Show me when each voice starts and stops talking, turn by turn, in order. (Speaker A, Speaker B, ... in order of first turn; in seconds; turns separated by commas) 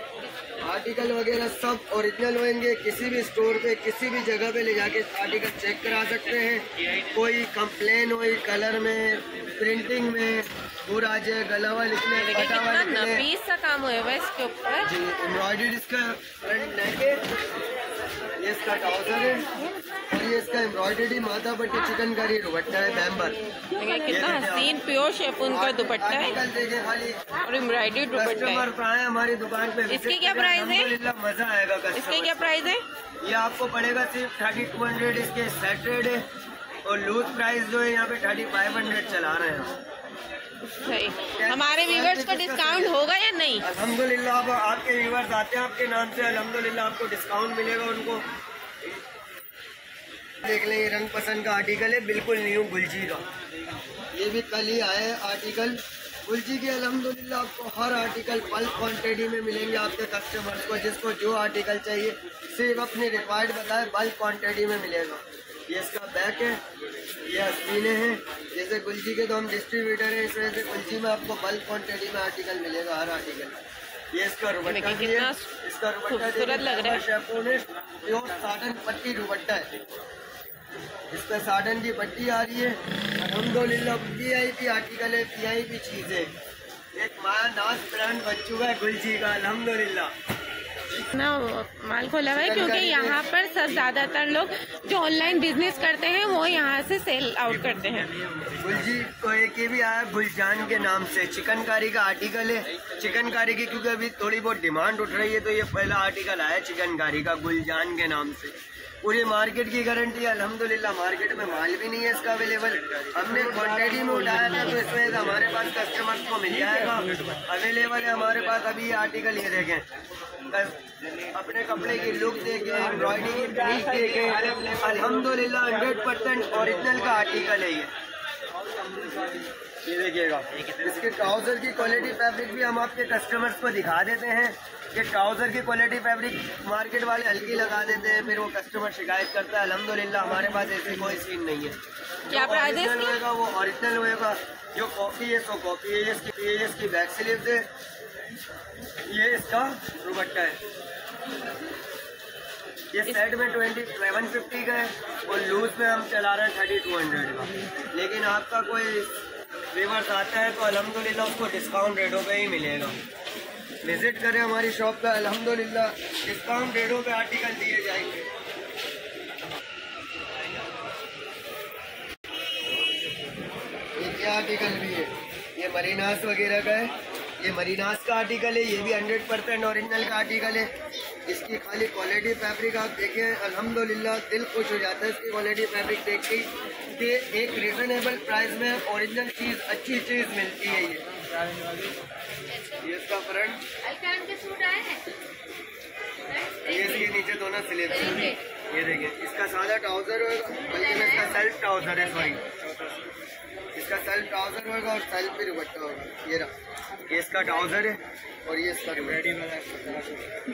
Speaker A: 0.6-13.3, Speaker B: 12.2-14.9, Speaker A: 14.8-17.2, Speaker A: 18.4-19.5, Speaker A: 20.1-23.4, Speaker B: 23.8-26.4, Speaker A: 24.1-24.8, Speaker A: 25.5-27.3, Speaker B: 27.4-28.7, Speaker A: 28.1-32.5, Speaker B: 29.9-30.9, Speaker B: 31.9-32.8, Speaker A: 33.2-36.2, Speaker A: 36.9-39.7, Speaker B: 40.6-43.7, Speaker A: 41.3-43.0, Speaker A: 43.6-48.2, Speaker A: 50.4-53.2, Speaker A: 54.1-66.6, Speaker A: 67.3-73.6, Speaker A: 74.1-79.7, Speaker B: 74.7-75.5, Speaker B: 76.1-77.0, Speaker A: 81.1-86.3, Speaker A: 87.0-90.1, Speaker B: 91.1-98.2, Speaker A: 92.4-93.2, Speaker A: 98.6-119.9, Speaker A: 120.5-120.8, Speaker A: 121.3-127.9, Speaker A: 129.3-147.7, Speaker B: 142.3-143.2, Speaker A: 149.1-150.6, Speaker A: 152.9-159.1, Speaker A: 159.7-162.9, Speaker A: 163.8-168.3, Speaker A: 174.0-180.7, Speaker A: 181.3-191.0, Speaker A: 192.7-193.7, Speaker B: 193.8-195.0, Speaker B: 196.4-197.1, Speaker A: 196.6-202.4, Speaker B: 198.1-198.4, Speaker A: 203.7-206.5, Speaker A: 207.1-209.8